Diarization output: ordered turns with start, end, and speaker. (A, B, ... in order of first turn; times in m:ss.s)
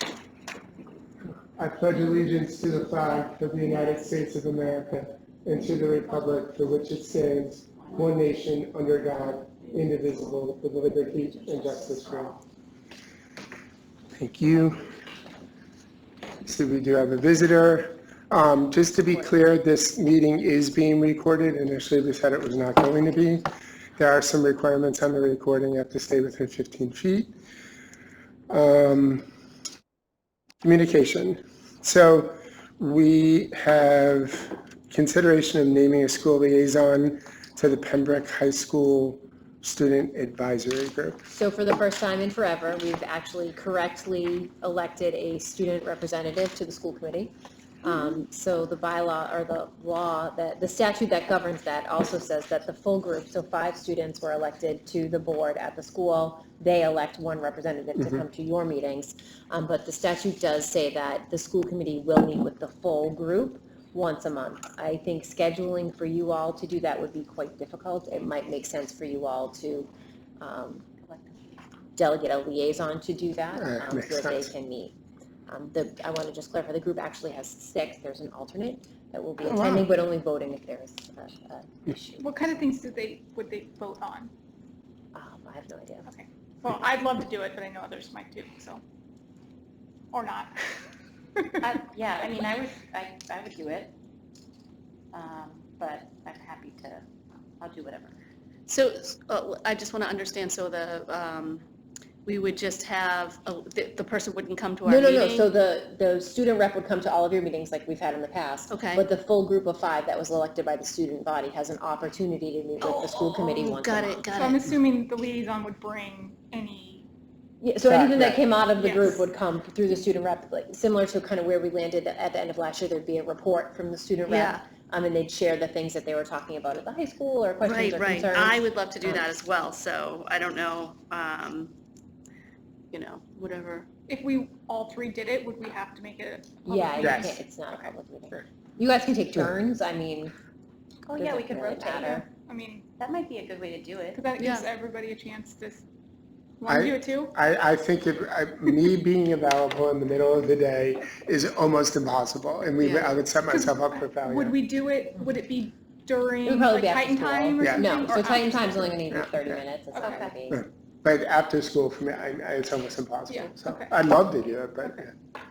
0:01.6-0:12.3 A
0:14.1-0:14.9 A
0:16.4-0:23.4 A
0:24.0-0:27.3 A
0:28.5-0:29.2 A
0:30.6-0:41.2 A
0:41.3-1:09.9 B
1:10.4-1:10.9 B
1:11.1-1:11.5 C
1:12.0-1:15.0 B
1:13.6-1:14.5 A
1:15.5-1:22.4 B
1:19.4-1:19.9 A
1:22.2-1:24.3 D
1:25.1-1:26.1 B
1:26.1-1:28.8 D
1:30.1-1:30.5 D
1:31.4-1:31.7 D
1:31.6-1:33.9 C
1:35.1-1:37.0 C
1:37.6-1:38.1 C
1:38.7-1:41.6 E
1:42.2-1:45.5 E
1:44.8-1:54.2 B
1:48.7-1:49.0 E
1:52.8-1:53.1 D
1:52.9-1:54.6 E
1:54.3-1:57.1 D
1:57.6-2:09.2 B
1:57.9-1:58.4 A
1:58.7-1:59.2 D
2:04.3-2:04.6 E
2:07.6-2:11.7 E
2:12.9-2:13.9 E
2:14.1-2:17.4 D
2:16.6-2:20.3 B
2:17.0-2:17.4 A
2:21.0-2:22.3 C
2:21.2-2:22.3 B
2:22.4-2:22.9 D
2:23.0-2:24.2 C
2:24.1-2:25.8 D
2:24.4-2:24.6 E
2:26.6-2:27.3 D
2:26.7-2:34.6 A
2:32.8-2:38.8 D
2:36.4-2:40.6 B
2:37.6-2:37.9 A
2:39.1-2:39.5 A
2:40.0-2:40.3 C
2:40.5-2:45.1 A
2:43.3-2:44.0 D